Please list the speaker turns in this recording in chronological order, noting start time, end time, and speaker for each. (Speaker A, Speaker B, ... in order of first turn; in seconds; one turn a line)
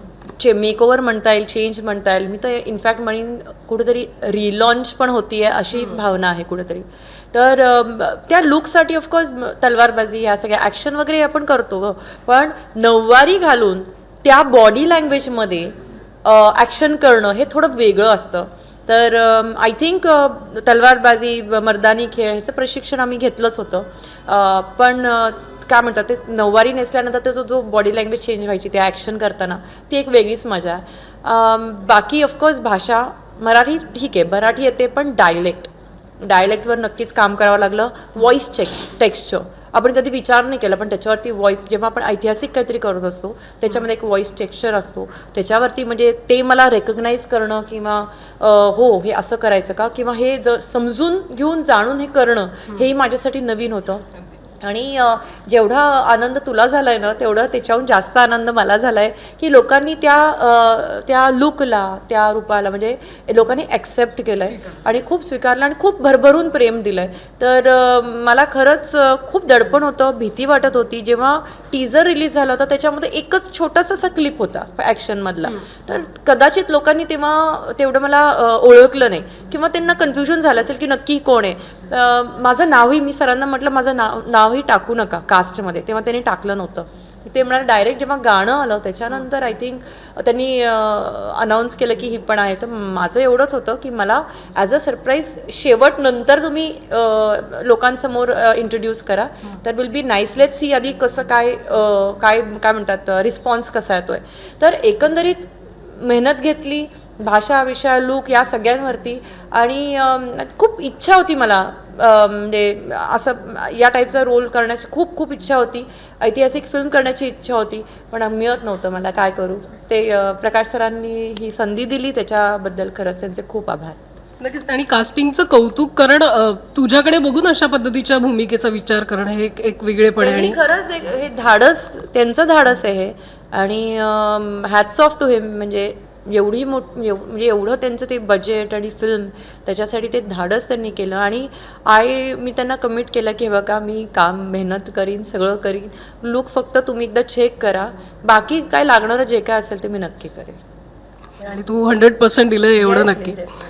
Speaker A: 0.4-54.0
Speaker B: 5.7-6.0
Speaker A: 54.6-124.0
Speaker B: 124.4-130.6
Speaker A: 130.2-150.6
Speaker B: 151.4-153.4
Speaker A: 152.8-153.6